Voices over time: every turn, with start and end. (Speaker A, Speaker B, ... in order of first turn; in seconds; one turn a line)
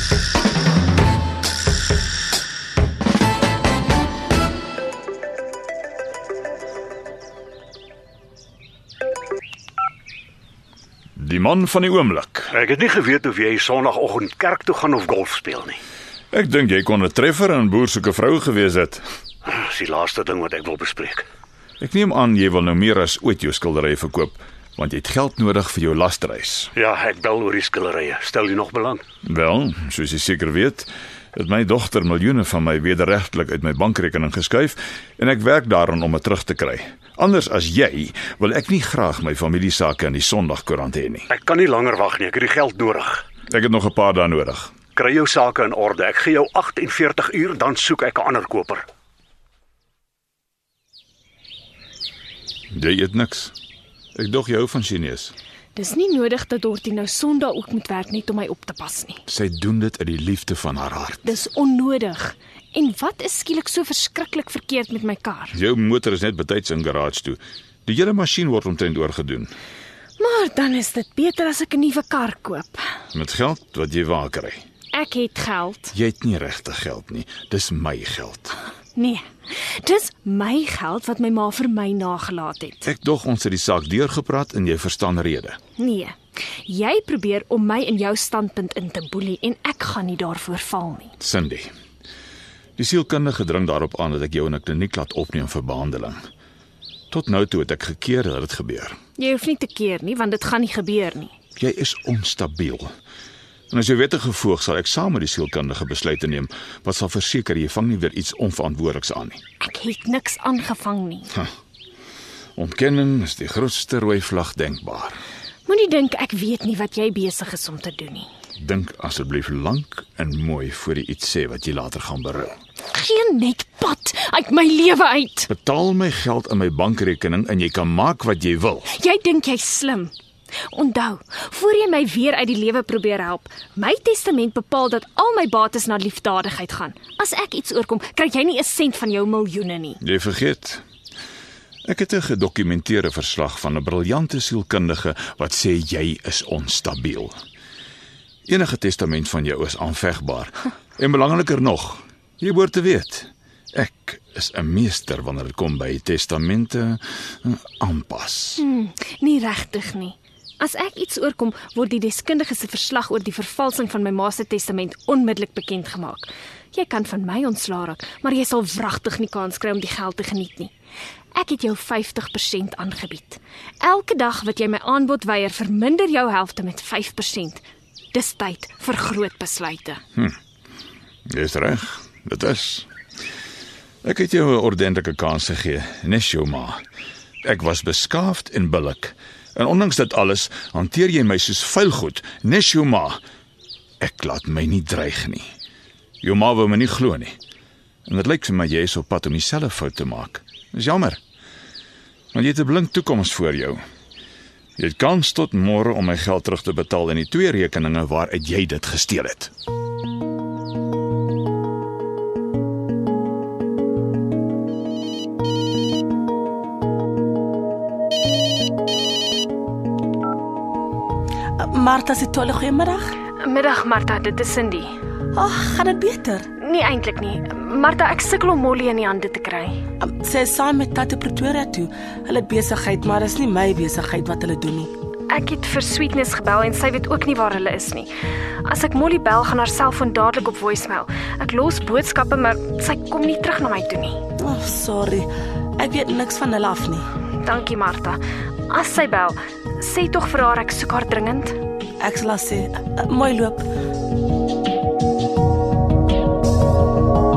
Speaker A: 11.2-12.5
Speaker B: 12.5-15.8
Speaker A: 16.3-19.0
Speaker B: 19.4-21.2
Speaker A: 21.8-26.7
Speaker B: 26.7-29.0
Speaker A: 29.2-41.3
Speaker B: 41.3-43.2
Speaker A: 43.5-44.7
Speaker B: 44.9-48.9
Speaker A: 52.7-53.5
Speaker A: 54.1-55.3
Speaker C: 55.7-59.2
Speaker A: 59.3-61.3
Speaker C: 61.2-65.6
Speaker A: 65.5-69.5
Speaker C: 70.2-72.9
Speaker A: 73.1-74.6
Speaker C: 74.9-75.9
Speaker A: 75.9-78.5
Speaker C: 79.0-79.2
Speaker C: 79.8-82.9
Speaker A: 82.8-85.6
Speaker C: 85.8-91.1
Speaker A: 91.2-91.7
Speaker A: 92.8-96.2
Speaker A: 97.1-99.0
Speaker C: 99.2-101.3
Speaker A: 101.5-102.9
Speaker A: 103.7-109.4
Speaker C: 109.6-111.3
Speaker A: 112.5-115.2
Speaker C: 115.7-118.3
Speaker A: 118.6-122.5
Speaker C: 122.9-125.5
Speaker A: 125.5-128.9
Speaker C: 128.9-130.1
Speaker C: 130.7-140.0
Speaker A: 140.0-140.8
Speaker A: 141.8-147.3
Speaker A: 148.5-158.6
Speaker C: 158.6-170.7
Speaker C: 171.3-180.0
Speaker A: 181.3-182.9
Speaker A: 184.0-186.8
Speaker A: 187.4-193.2
Speaker A: 194.0-195.5
Speaker A: 196.2-197.3
Speaker A: 198.1-201.2
Speaker A: 202.3-203.8
Speaker A: 204.8-209.5
Speaker D: 221.6-223.2
Speaker C: 223.4-224.9
Speaker D: 225.3-226.5
Speaker C: 226.6-229.8
Speaker D: 230.0-234.9
Speaker C: 235.3-238.1
Speaker C: 238.6-244.2
Speaker D: 244.4-247.1
Speaker C: 247.4-251.5
Speaker D: 252.0-253.7